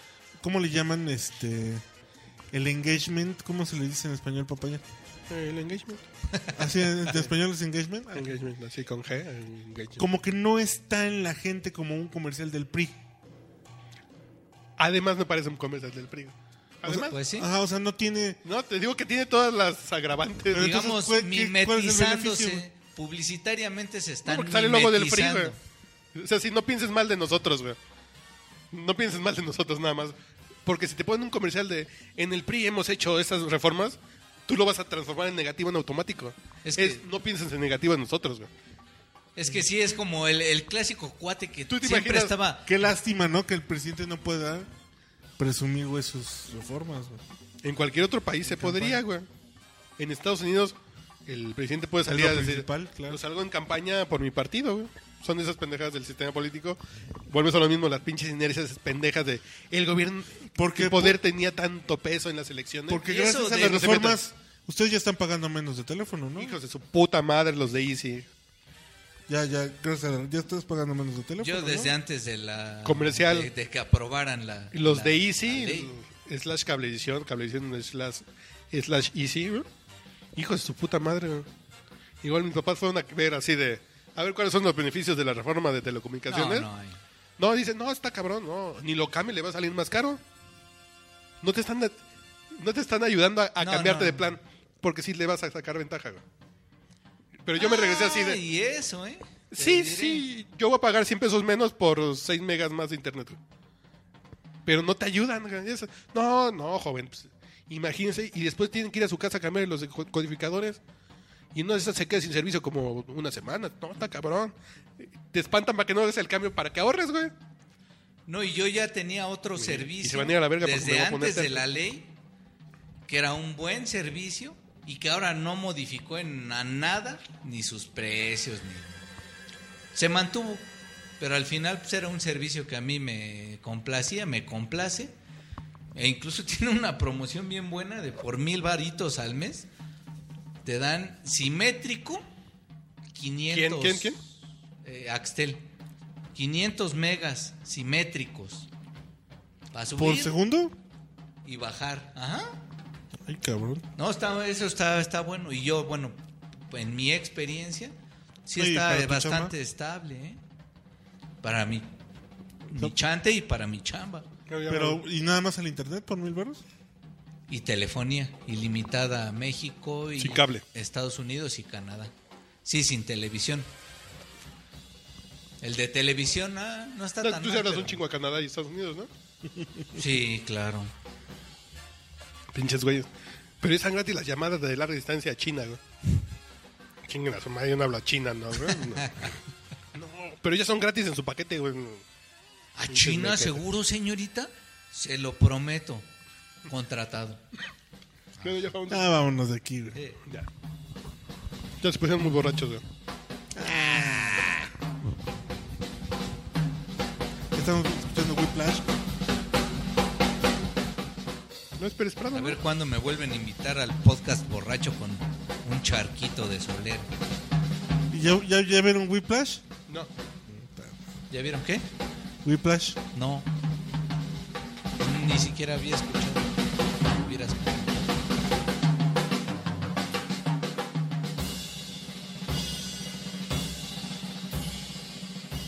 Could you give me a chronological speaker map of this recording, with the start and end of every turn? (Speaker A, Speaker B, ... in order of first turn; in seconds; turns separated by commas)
Speaker A: 0.4-1.8, Speaker A: 2.5-4.8, Speaker B: 5.3-6.0, Speaker A: 6.5-8.3, Speaker B: 8.1-10.0, Speaker A: 10.0-13.0, Speaker B: 14.8-17.2, Speaker A: 16.9-18.4, Speaker C: 16.9-17.5, Speaker B: 18.4-20.7, Speaker A: 20.5-22.6, Speaker C: 20.6-25.6, Speaker B: 24.3-25.6, Speaker B: 26.1-27.8, Speaker B: 28.7-30.1, Speaker B: 30.7-38.5, Speaker C: 36.6-37.0, Speaker C: 39.4-42.7, Speaker B: 41.7-42.4, Speaker A: 42.7-44.7, Speaker A: 45.4-47.2, Speaker B: 47.6-49.3, Speaker A: 48.4-49.0, Speaker B: 50.0-50.8, Speaker B: 51.3-64.2, Speaker A: 52.1-53.2, Speaker A: 60.5-61.2, Speaker A: 62.9-66.5, Speaker C: 63.1-64.0, Speaker B: 66.4-68.3, Speaker A: 69.3-71.9, Speaker C: 71.4-75.9, Speaker B: 72.8-73.5, Speaker B: 74.7-79.7, Speaker B: 80.4-81.5, Speaker B: 82.2-86.7, Speaker C: 86.3-87.0, Speaker B: 87.4-90.2, Speaker B: 91.4-92.0, Speaker B: 92.5-96.2, Speaker C: 93.6-94.4, Speaker B: 97.5-98.4, Speaker C: 97.6-100.2, Speaker B: 99.5-103.4, Speaker B: 104.7-110.8, Speaker B: 111.5-117.3, Speaker C: 118.3-122.2, Speaker B: 119.6-121.7, Speaker C: 123.1-129.0, Speaker C: 129.9-130.7, Speaker C: 131.2-135.1, Speaker C: 135.9-139.7, Speaker C: 140.7-142.2, Speaker C: 143.1-144.2, Speaker B: 143.5-144.2, Speaker C: 144.8-145.7, Speaker C: 146.3-148.7, Speaker C: 149.7-150.3, Speaker A: 149.9-150.8, Speaker C: 151.4-152.6, Speaker A: 153.2-153.8, Speaker C: 154.0-156.2, Speaker C: 156.7-157.9, Speaker C: 158.5-160.4, Speaker A: 158.6-159.5, Speaker C: 161.4-161.9, Speaker C: 162.7-164.3, Speaker B: 164.5-165.0, Speaker A: 164.7-166.6, Speaker C: 167.5-172.1, Speaker B: 170.2-170.6, Speaker C: 172.7-173.7, Speaker C: 175.6-178.0, Speaker B: 177.2-179.1, Speaker C: 179.9-180.9, Speaker B: 182.5-183.1, Speaker B: 183.6-185.8, Speaker B: 187.1-189.4, Speaker C: 188.8-189.3, Speaker B: 189.9-192.0, Speaker C: 192.8-196.1, Speaker B: 192.9-193.6, Speaker C: 196.7-197.4, Speaker B: 198.4-199.1, Speaker A: 198.9-200.0, Speaker C: 199.9-200.2, Speaker B: 201.8-202.8, Speaker A: 203.6-204.7, Speaker A: 207.5-208.9, Speaker B: 211.8-212.6, Speaker C: 212.3-217.1, Speaker A: 218.1-219.7, Speaker A: 220.5-221.0, Speaker C: 221.3-221.9, Speaker A: 222.4-223.0, Speaker C: 223.1-223.5, Speaker C: 225.0-226.5, Speaker C: 227.1-228.1